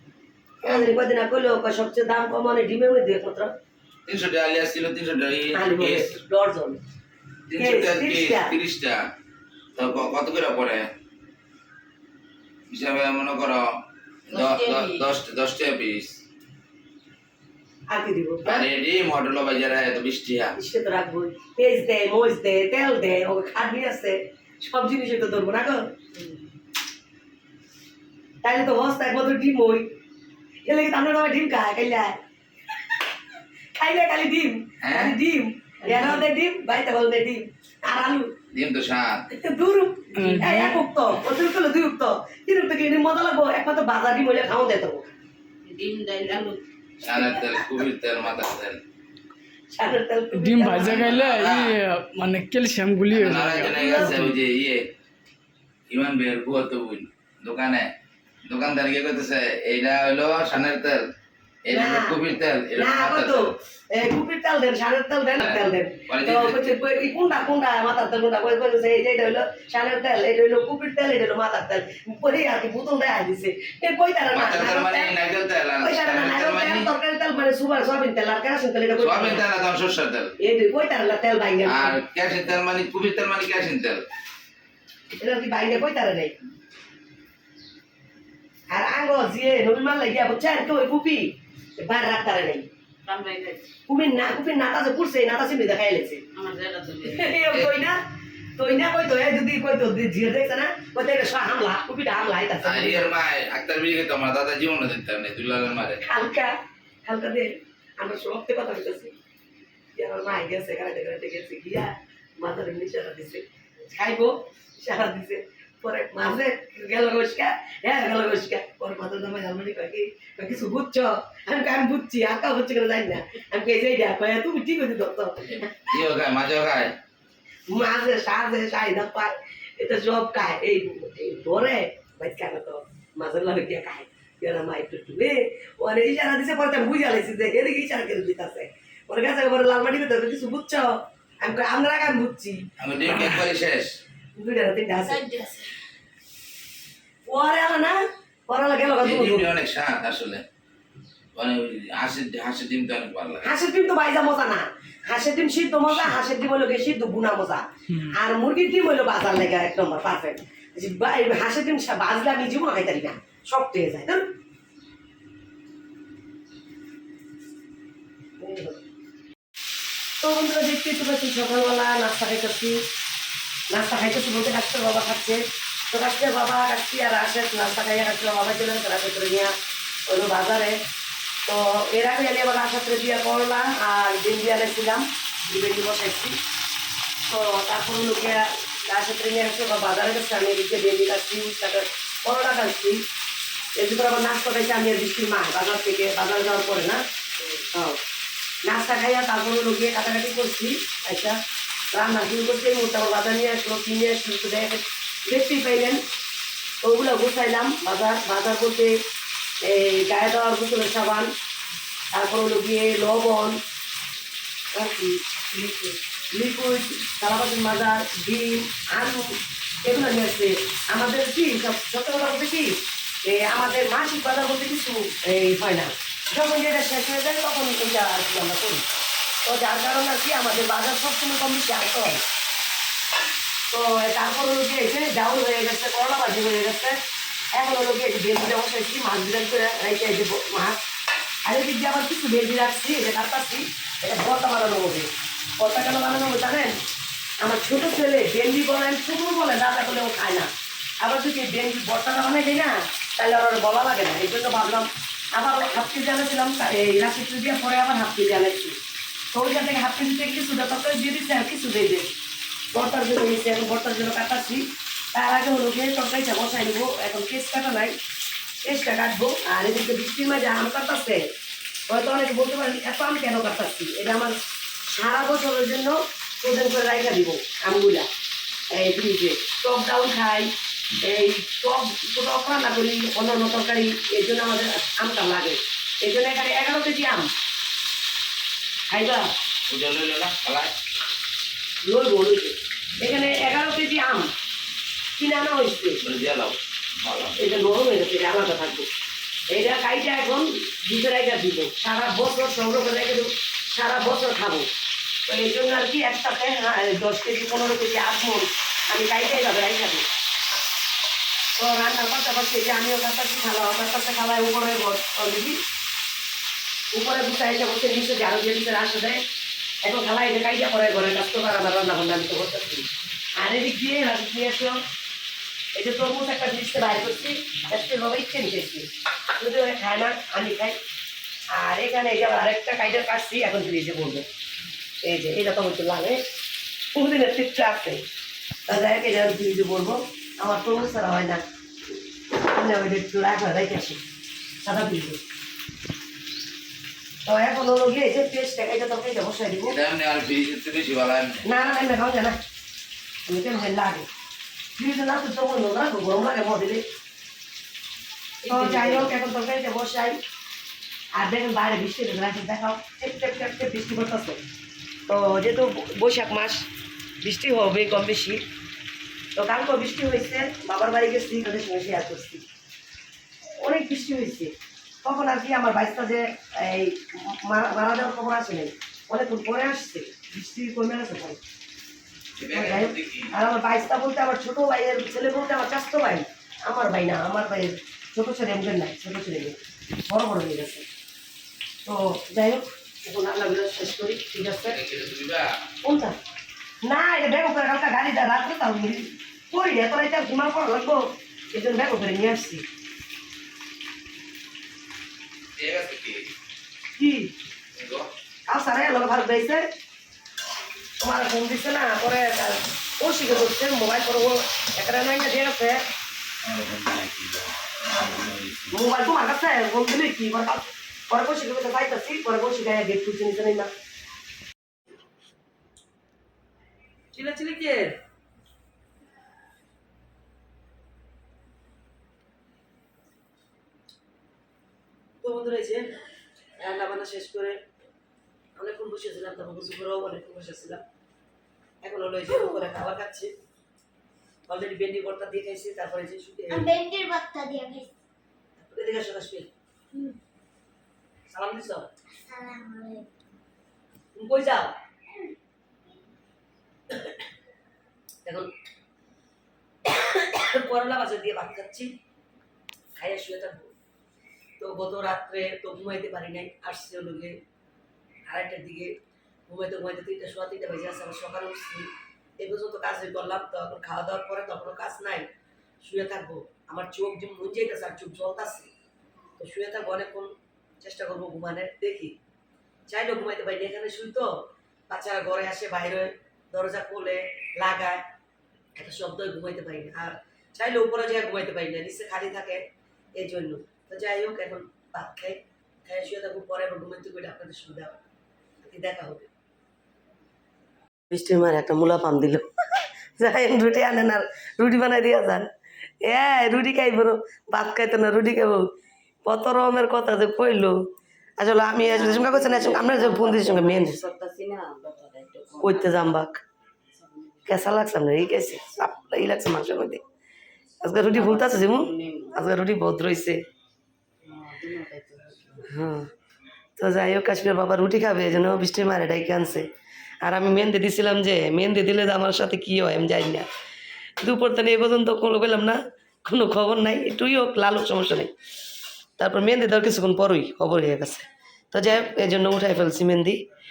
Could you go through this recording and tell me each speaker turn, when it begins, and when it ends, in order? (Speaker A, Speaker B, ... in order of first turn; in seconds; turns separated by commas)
Speaker A: 0.6-3.5, Speaker B: 0.6-0.9, Speaker B: 4.1-6.2, Speaker A: 5.5-6.8, Speaker B: 7.5-9.0, Speaker A: 7.6-8.6, Speaker B: 9.7-10.9, Speaker B: 12.7-13.7, Speaker C: 14.3-15.0, Speaker B: 14.3-16.2, Speaker A: 17.9-18.7, Speaker B: 18.4-20.6, Speaker A: 20.6-25.8, Speaker A: 28.4-29.9, Speaker A: 30.6-32.2, Speaker A: 33.7-38.3, Speaker B: 34.8-35.1, Speaker B: 38.5-39.2, Speaker A: 39.3-45.1, Speaker D: 40.1-40.9, Speaker C: 45.6-46.6, Speaker B: 47.0-48.8, Speaker A: 49.7-51.3, Speaker D: 50.3-54.3, Speaker B: 50.9-51.7, Speaker B: 53.1-54.8, Speaker A: 53.8-54.0, Speaker B: 55.9-57.9, Speaker B: 58.5-61.1, Speaker B: 61.6-63.5, Speaker A: 61.7-62.2, Speaker A: 62.8-75.1, Speaker B: 65.4-66.7, Speaker B: 74.3-76.9, Speaker A: 75.8-79.4, Speaker B: 79.0-80.3, Speaker A: 80.4-82.0, Speaker B: 81.6-84.0, Speaker A: 85.1-86.3, Speaker A: 88.7-92.7, Speaker C: 93.0-93.7, Speaker A: 93.9-96.2, Speaker C: 96.3-97.4, Speaker A: 97.0-98.0, Speaker A: 98.5-103.1, Speaker B: 102.6-106.0, Speaker A: 106.0-106.5, Speaker A: 107.0-109.1, Speaker A: 110.0-125.7, Speaker B: 125.5-127.0, Speaker A: 127.7-143.4, Speaker B: 142.8-143.9, Speaker A: 144.3-145.4, Speaker E: 145.1-145.6, Speaker A: 147.2-149.5, Speaker B: 149.0-150.4, Speaker B: 151.3-153.5, Speaker A: 153.4-164.2, Speaker A: 168.4-168.8, Speaker A: 170.2-172.8, Speaker A: 173.7-179.5, Speaker A: 180.1-180.8, Speaker A: 181.4-186.4, Speaker A: 187.2-193.0, Speaker A: 193.7-197.0, Speaker A: 197.7-198.0, Speaker A: 198.6-201.4, Speaker A: 201.9-206.0, Speaker A: 206.8-209.0, Speaker A: 209.6-211.3, Speaker A: 212.1-213.6, Speaker A: 214.7-228.8, Speaker A: 229.4-232.2, Speaker A: 233.7-237.0, Speaker A: 237.5-240.8, Speaker A: 241.4-246.8, Speaker A: 247.4-250.5, Speaker A: 251.0-258.8, Speaker A: 259.3-262.1, Speaker A: 262.7-268.0, Speaker A: 268.6-271.2, Speaker A: 271.9-274.4, Speaker A: 274.9-278.1, Speaker A: 278.7-287.3, Speaker A: 288.9-289.3, Speaker B: 289.7-290.7, Speaker A: 291.8-294.3, Speaker A: 295.2-296.0, Speaker B: 296.0-297.4, Speaker A: 297.4-298.9, Speaker A: 299.5-304.7, Speaker A: 305.3-310.0, Speaker A: 311.6-315.6, Speaker A: 316.9-319.2, Speaker A: 319.8-324.8, Speaker A: 325.7-330.8, Speaker A: 331.5-334.2, Speaker A: 335.0-336.2, Speaker A: 336.9-338.1, Speaker A: 338.7-341.4, Speaker A: 342.3-344.0, Speaker A: 344.6-345.2, Speaker A: 347.2-349.8, Speaker B: 349.7-351.4, Speaker A: 351.4-352.4, Speaker A: 353.2-354.1, Speaker A: 354.8-356.8, Speaker C: 358.4-359.1, Speaker A: 358.4-360.2, Speaker A: 361.1-364.4, Speaker A: 365.1-366.7, Speaker A: 367.2-368.4, Speaker A: 369.4-372.4, Speaker A: 373.6-381.4, Speaker B: 382.4-383.3, Speaker A: 382.5-390.9, Speaker A: 391.8-394.8, Speaker B: 394.6-395.5, Speaker A: 395.8-396.1, Speaker A: 396.8-402.6, Speaker B: 405.6-406.3, Speaker A: 406.9-407.3, Speaker B: 407.7-408.1, Speaker A: 408.5-409.6, Speaker A: 411.0-415.8, Speaker B: 416.4-418.8, Speaker A: 418.7-423.7, Speaker A: 427.1-427.9, Speaker A: 435.2-435.9, Speaker A: 436.6-437.6, Speaker A: 438.6-440.8, Speaker A: 441.8-443.3, Speaker E: 442.3-442.6, Speaker A: 444.5-446.7, Speaker E: 446.5-447.9, Speaker A: 448.6-449.5, Speaker E: 449.9-450.2, Speaker A: 451.3-451.9, Speaker E: 452.2-453.1, Speaker A: 454.1-454.7, Speaker A: 458.2-458.5, Speaker A: 459.9-461.9, Speaker A: 462.9-463.7, Speaker A: 464.6-467.4, Speaker A: 468.3-468.9, Speaker A: 469.5-475.3, Speaker A: 475.8-478.7, Speaker A: 479.4-482.1, Speaker A: 482.9-488.0, Speaker A: 488.8-492.6, Speaker A: 493.1-497.9, Speaker A: 498.6-499.3, Speaker A: 501.1-505.5, Speaker A: 506.0-508.7, Speaker A: 509.2-510.8, Speaker A: 511.4-514.0, Speaker C: 511.8-515.9, Speaker A: 515.6-516.4, Speaker C: 517.0-517.6, Speaker A: 517.5-520.0, Speaker A: 520.8-523.4, Speaker C: 521.1-522.3, Speaker C: 524.2-525.7, Speaker A: 525.6-526.1, Speaker A: 526.8-529.7, Speaker A: 530.2-533.5, Speaker A: 534.2-538.3, Speaker A: 539.2-543.4